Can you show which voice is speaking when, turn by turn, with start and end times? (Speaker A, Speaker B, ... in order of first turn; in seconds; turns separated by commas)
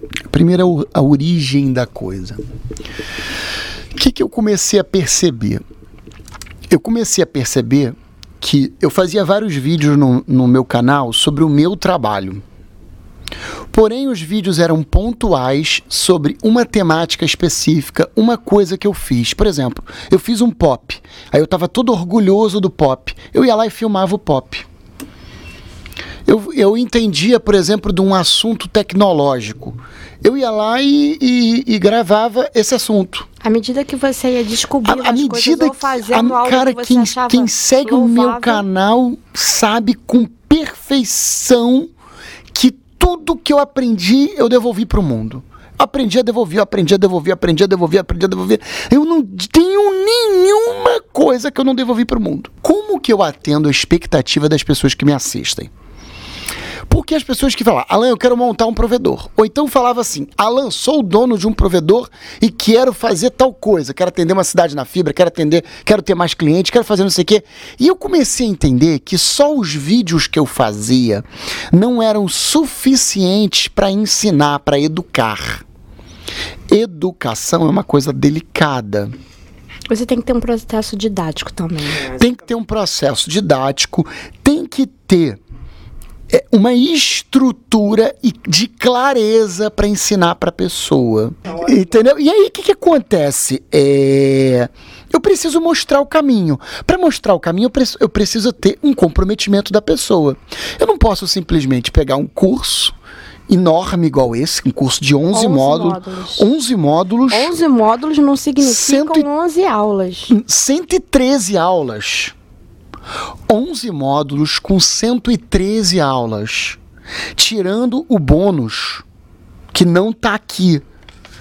Speaker A: 0.3-2.4, Speaker A: 4.0-5.6, Speaker A: 6.7-12.4, Speaker A: 13.7-24.7, Speaker A: 26.3-33.3, Speaker B: 33.4-38.6, Speaker A: 34.9-41.9, Speaker A: 42.5-55.7, Speaker A: 56.9-75.6, Speaker A: 76.7-79.1, Speaker B: 79.9-82.2, Speaker A: 82.0-85.4, Speaker A: 86.3-102.9, Speaker A: 103.5-107.5, Speaker B: 105.3-106.5, Speaker B: 107.3-110.3, Speaker A: 108.6-109.3, Speaker A: 110.3-112.3, Speaker A: 113.5-116.8, Speaker A: 117.4-119.0, Speaker A: 119.7-120.8